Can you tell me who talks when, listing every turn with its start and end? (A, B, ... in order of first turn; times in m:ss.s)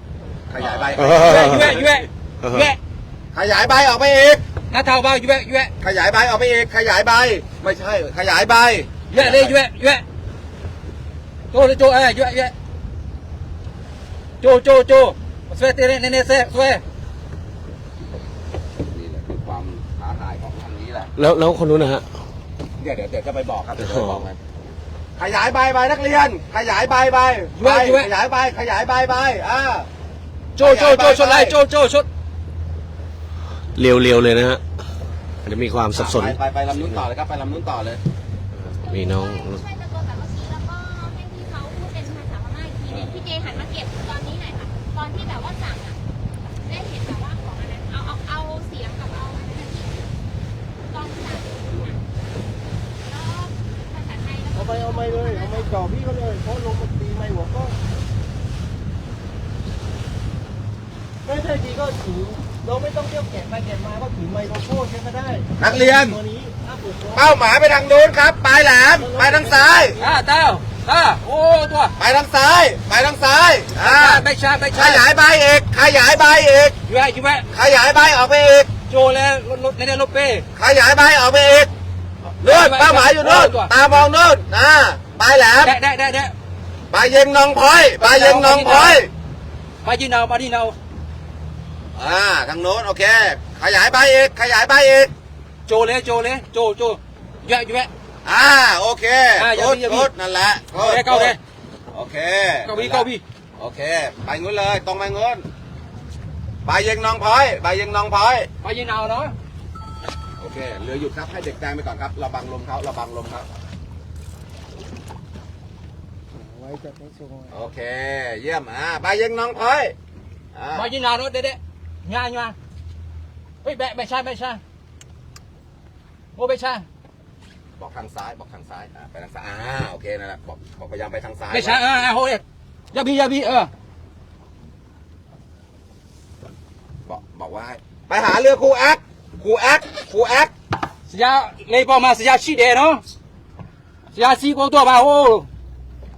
0:00.5-0:01.9 A
0:00.8-0:02.8 B
0:00.9-0:01.8 C
0:02.4-0:02.7 C
0:03.3-0:04.4 A
0:04.7-0:05.7 B
0:05.8-0:09.6 A
0:09.1-0:10.0 B
0:11.5-0:12.5 B
0:14.4-0:16.8 B
0:18.8-0:21.1 A
0:21.2-0:22.1 C
0:22.8-0:24.4 A
0:23.8-0:24.2 C
0:25.2-0:29.9 A
0:27.6-0:28.1 B
0:30.6-0:32.1 B
0:30.6-0:31.6 A
0:33.7-0:34.6 C
0:35.4-0:36.4 C
0:35.9-0:38.0 A
0:38.7-0:39.6 C
0:38.8-0:46.0 D
0:42.9-0:43.3 A
0:46.6-0:50.1 D
0:50.9-0:52.0 D
0:53.0-0:55.7 D
0:54.5-0:57.7 E
1:01.2-1:07.2 E
1:05.6-1:06.2 A
1:07.1-1:10.0 A
1:09.0-1:09.8 E
1:10.0-1:11.9 B
1:12.0-1:16.8 A
1:13.7-1:15.0 B
1:16.9-1:17.5 B
1:17.5-1:18.8 A
1:18.8-1:20.4 B
1:20.5-1:21.7 A
1:22.4-1:23.7 B
1:22.4-1:25.7 A
1:25.6-1:26.3 B
1:26.9-1:29.1 A
1:28.0-1:29.0 B
1:29.8-1:30.8 B
1:31.9-1:35.1 A
1:35.7-1:37.9 B
1:38.2-1:41.4 A
1:39.4-1:40.1 B
1:40.7-1:41.4 B
1:41.9-1:45.5 A
1:42.6-1:43.2 B
1:46.6-1:48.5 A
1:48.6-1:49.3 B
1:50.4-1:53.5 A
1:56.4-1:57.5 E
1:57.5-1:59.9 A
2:00.5-2:00.9 A
2:00.7-2:02.6 B
2:03.6-2:04.6 B
2:06.4-2:06.8 B
2:07.8-2:11.9 A
2:11.5-2:13.7 B
2:17.0-2:20.5 A
2:21.1-2:23.0 B
2:24.1-2:25.5 B